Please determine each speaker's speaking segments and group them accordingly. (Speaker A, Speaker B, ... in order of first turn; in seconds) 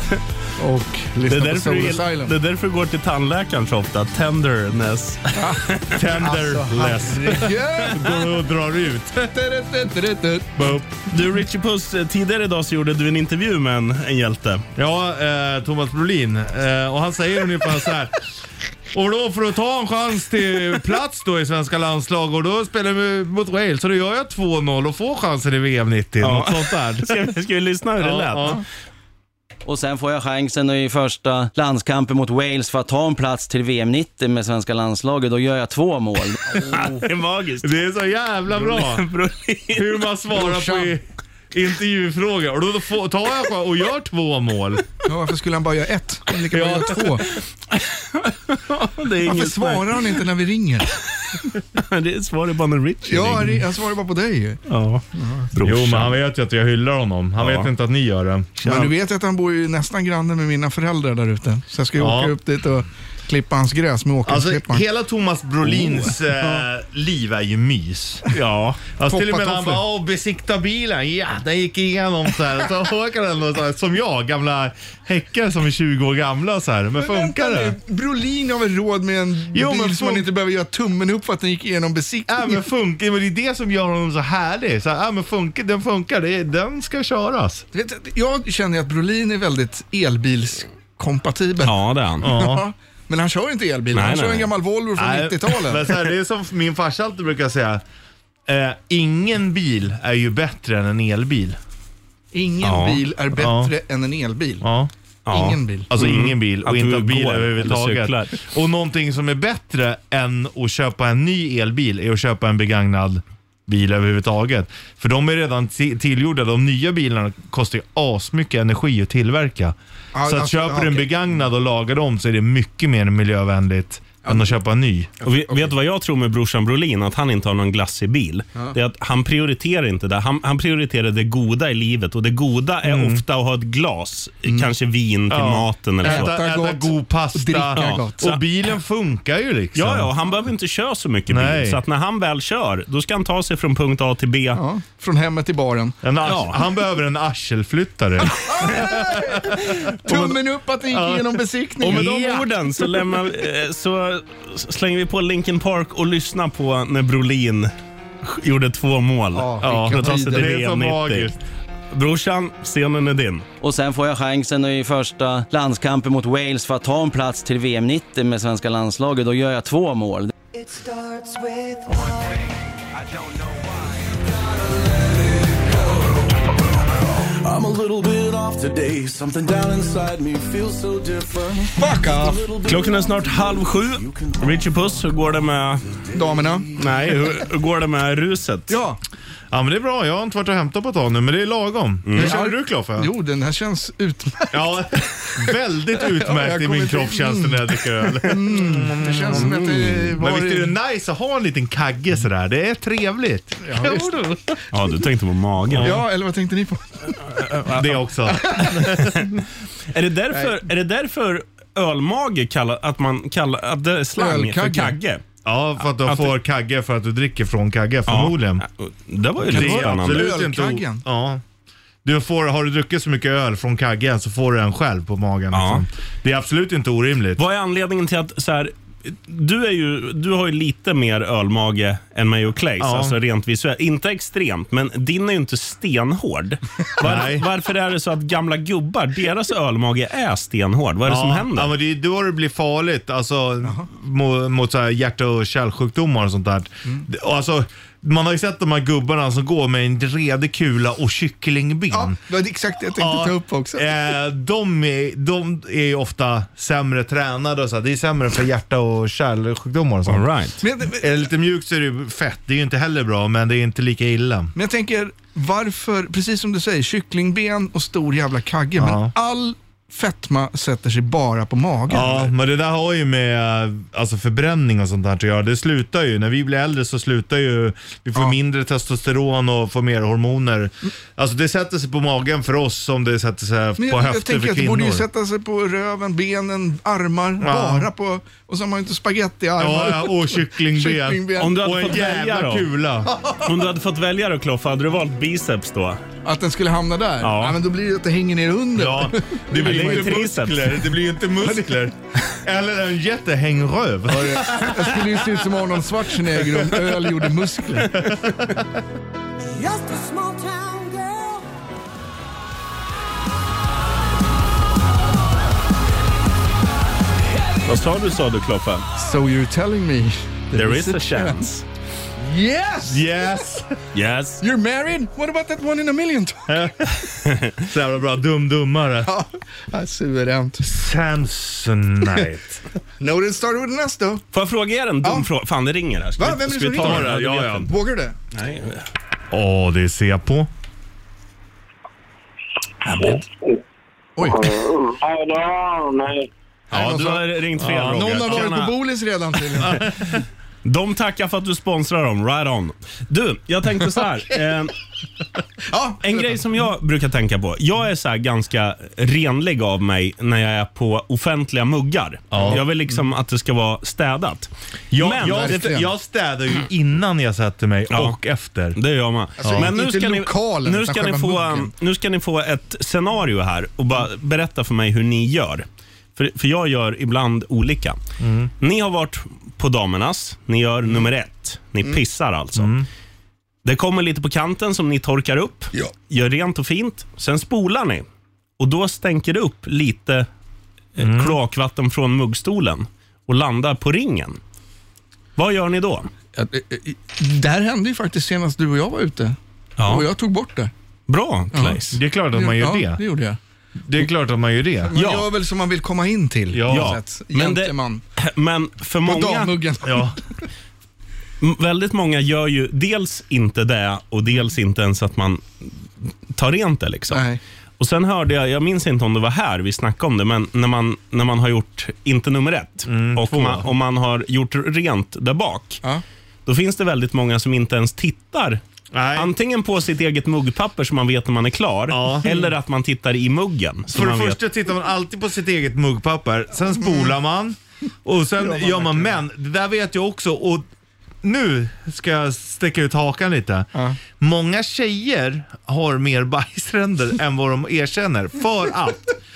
Speaker A: 0.6-2.3, 5.3-8.2, 9.3-10.7, 36.5-37.0, 40.3-40.9, 45.0-47.3, 49.2-51.0, 53.0-54.6, 55.1-55.5, 58.6-64.8, 69.1-69.8, 77.0-82.6, 87.7-96.0, 102.3-104.6, 105.3-105.9, 120.1-121.1, 124.2-124.5, 125.2-125.7, 136.0-138.3, 144.5-146.0, 148.3-152.5, 159.3-160.6, 181.8-182.5, 186.1-186.7, 188.7-189.0, 192.2-194.8, 196.0-200.8, 203.6-204.5, 205.8-207.1, 208.4-208.7, 210.3-210.6, 214.2-214.9, 219.4-221.0, 251.9-253.9, 260.6-261.3, 264.5-272.3, 283.8-291.7, 296.2-300.4, 301.4-301.9, 304.1-307.9, 318.9-321.4, 322.1-323.1, 324.4-326.6, 329.0-330.6, 333.0-334.2, 335.0-335.3, 336.2-338.1, 344.1-344.5, 346.7-349.8, 355.7-356.4, 365.0-365.9, 369.4-371.7, 396.4-400.7, 401.5-403.4, 404.8-408.0, 409.0-410.2, 417.1-417.4, 436.8-437.1, 438.3-439.2
Speaker B: 1.3-5.9, 11.1-14.6, 26.2-28.6, 36.7-37.7, 38.5-40.0, 47.7-50.2, 51.8-53.6, 54.7-56.2, 57.4-57.7, 65.7-66.6, 68.3-68.8, 91.6-92.3, 93.9-94.5, 102.6-103.0, 105.2-108.4, 125.2-136.3, 137.8-138.4, 139.7-144.6, 146.2-146.6, 151.8-157.7, 158.2-161.3, 161.9-163.4, 182.6-185.9, 186.8-188.8, 192.1-192.3, 199.3-200.1, 204.7-206.0, 208.6-209.2, 209.9-215.2, 216.1-216.3, 218.1-220.4, 225.5-225.8, 227.4-241.7, 260.1-260.6, 291.4-292.7, 293.4-296.0, 297.2-297.6, 299.5-300.8, 317.6-318.9, 320.5-321.6, 323.9-324.4, 334.3-337.7, 338.3-338.8, 346.7-348.8, 350.6-354.7, 356.0-365.6, 367.9-368.2, 368.7-378.0, 378.6-382.8, 383.6-388.0, 388.6-390.3, 390.9-394.4, 395.4-396.1, 399.8-400.1, 401.1-402.0, 404.9-405.3, 406.7-409.6, 411.4-415.8, 416.3-417.3, 417.8-425.8, 426.4-428.6, 429.1-434.4
Speaker C: 5.9-9.3, 10.6-10.9, 14.8-18.2, 18.9-27.2, 28.0-28.6, 37.6-39.0, 39.7-44.8, 46.5-47.2, 55.6-58.9, 62.0-62.3, 64.2-68.3, 69.0-77.7, 79.5-80.2, 82.3-87.6, 92.2-92.6, 95.0-97.8, 98.5-101.6, 103.3-103.7, 104.6-104.9, 105.9-125.1, 132.8-133.2, 135.3-140.1, 141.3-141.8, 146.0-150.3, 150.9-152.1, 159.6-161.4, 189.5-193.1, 194.5-204.4, 207.6-209.3, 215.4-218.6, 219.4-221.4, 222.0-227.4, 232.8-233.1, 237.0-237.4, 241.1-252.2, 253.0-260.3, 261.0-264.5, 268.8-269.1, 271.9-285.0, 287.4-287.9, 289.6-293.5, 298.8-305.1, 307.9-308.4, 322.9-323.6, 326.5-329.1, 330.6-332.6, 336.8-337.7, 339.3-340.5, 347.6-348.5, 349.6-350.1, 362.3-362.6, 364.9-368.8, 369.4-369.7, 378.2-378.5, 382.6-382.9, 391.0-391.4, 401.9-403.0, 403.9-404.9, 406.5-407.0, 409.8-410.2, 422.9-423.6, 428.9-429.3, 431.9-432.4, 433.9-440.6, 441.2-449.1
Speaker D: 29.6-36.4, 163.6-170.3
Speaker E: 170.5-172.4, 173.0-174.2, 175.4-175.8, 179.4-179.7, 309.5-311.4
Speaker F: 177.4-181.6, 182.5-182.8